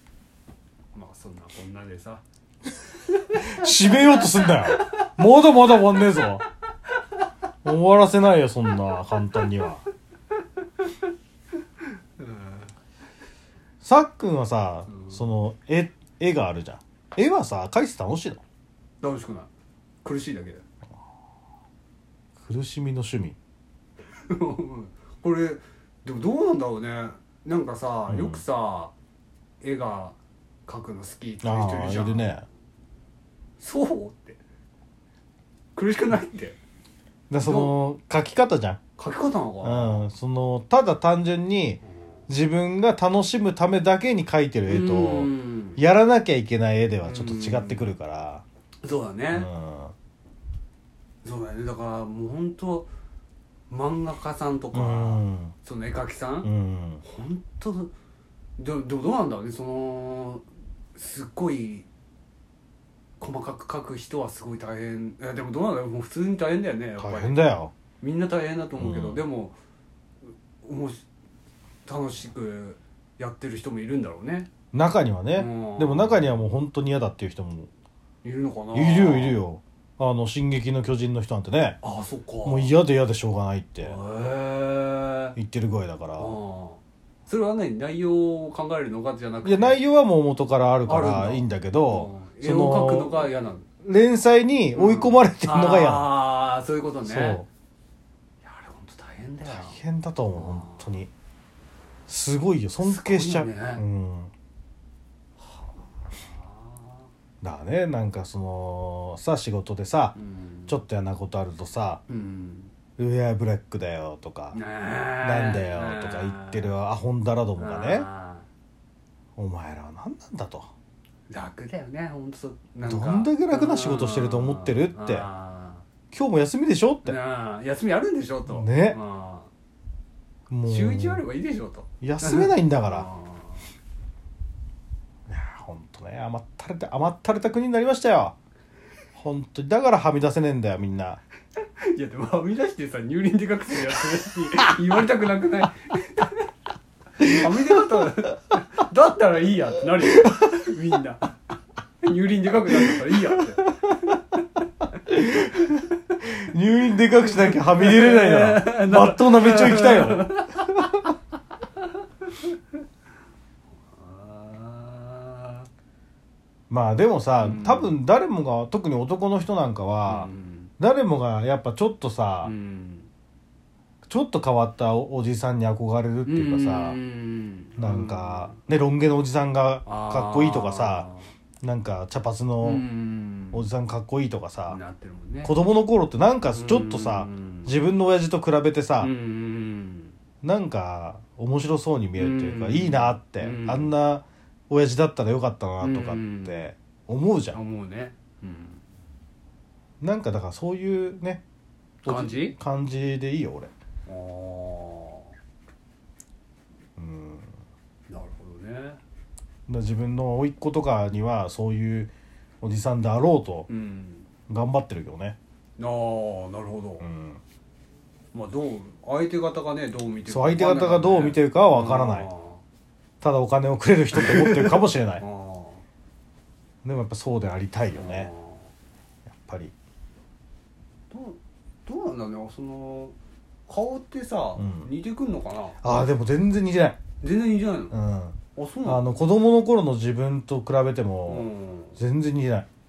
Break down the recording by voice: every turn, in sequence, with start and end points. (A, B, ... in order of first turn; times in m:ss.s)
0:00.9-0:02.2 A
0:03.3-0:04.9 A
0:03.4-0:06.4 B
0:07.6-0:09.8 B
0:12.2-0:12.7 A
0:13.8-0:18.4 B
0:14.9-0:15.2 A
0:19.0-0:19.5 A
0:20.0-0:20.6 A
0:22.4-0:23.4 B
0:24.2-0:28.9 A
0:28.1-0:28.4 B
0:29.6-0:32.2 A
0:31.4-0:32.4 B
0:33.6-0:34.4 A
0:35.7-0:36.6 A
0:37.3-0:38.8 B
0:37.4-0:37.7 A
0:39.0-0:40.0 A
0:39.6-0:48.4 B
0:44.7-0:45.8 A
0:47.0-0:47.9 A
0:48.8-0:49.5 A
0:49.3-0:49.9 B
0:51.2-0:52.9 A
0:53.7-0:56.5 A
0:54.7-0:55.5 B
0:56.4-0:57.0 B
0:57.0-0:57.9 A
0:58.6-1:00.4 A
1:00.9-1:01.8 A
1:03.2-1:07.4 A
1:07.0-1:07.7 B
1:08.0-1:09.5 A
1:08.8-1:09.2 B
1:10.6-1:11.0 A
1:11.8-1:14.5 A
1:14.7-1:17.7 B
1:15.3-1:16.4 A
1:18.2-1:19.4 A
1:18.7-1:21.8 B
1:21.8-1:22.7 A
1:22.4-1:24.0 B
1:23.8-1:25.4 A
1:25.4-1:26.3 B
1:26.2-1:29.8 A
1:29.4-1:33.3 B
1:30.9-1:33.6 A
1:33.8-1:36.1 B
1:34.8-1:37.4 A
1:37.0-1:37.4 B
1:38.4-1:39.8 A
1:39.5-1:41.1 B
1:40.3-1:40.8 A
1:42.1-1:44.3 B
1:42.8-1:43.8 A
1:45.4-1:47.0 A
1:47.4-1:50.2 B
1:50.2-1:50.8 A
1:50.7-1:52.0 B
1:52.1-1:52.7 A
1:53.0-1:54.6 B
1:54.5-1:56.7 A
1:55.2-1:58.0 B
1:57.6-1:58.4 A
1:59.4-2:00.7 B
2:01.3-2:05.8 A
2:02.8-2:05.2 B
2:06.1-2:07.2 B
2:07.0-2:09.5 A
2:08.5-2:09.0 B
2:10.5-2:11.2 B
2:10.6-2:13.7 A
2:12.0-2:13.1 B
2:15.3-2:18.3 B
2:19.1-2:21.2 B
2:21.8-2:26.5 A
2:27.2-2:31.3 A
2:27.2-2:27.6 B
2:30.1-2:30.6 B
2:32.0-2:34.2 A
2:32.7-2:33.3 B
2:35.0-2:41.1 B
2:35.3-2:35.7 A
2:37.3-2:40.6 A
2:43.8-2:45.7 A
2:46.7-2:52.5 B
2:47.4-2:47.9 A
2:50.0-2:50.7 A
2:52.4-2:53.1 A
2:54.1-2:57.0 B
2:56.2-2:58.6 A
2:57.8-3:01.1 B
2:59.8-3:01.3 A
3:01.6-3:02.8 B
3:02.6-3:03.7 A
3:03.5-3:04.8 B
3:04.7-3:05.5 A
3:05.4-3:09.1 B
3:06.5-3:07.7 A
3:09.0-3:10.2 A
3:10.4-3:17.6 B
3:12.2-3:13.9 A
3:15.8-3:16.7 A
3:17.5-3:18.8 A
3:20.0-3:21.4 B
3:22.0-3:22.6 A
3:22.0-3:23.7 B
3:24.1-3:25.3 A
3:27.0-3:27.5 B
3:28.1-3:29.0 A
3:29.7-3:32.1 B
3:32.6-3:33.7 B
3:33.7-3:34.2 A
3:34.5-3:35.4 B
3:35.8-3:37.1 A
3:37.0-3:37.4 B
3:38.3-3:42.6 A
3:40.3-3:42.3 B
3:43.2-3:45.2 B
3:44.1-3:45.8 A
3:46.8-3:48.3 B
3:47.9-3:48.7 A
3:49.3-3:49.7 B
3:51.1-3:53.1 A
3:53.7-3:55.8 A
3:54.6-3:54.9 B
3:55.8-3:57.0 B
3:57.2-3:58.0 A
3:57.9-4:02.7 B
3:58.6-3:59.0 A
4:01.2-4:02.0 A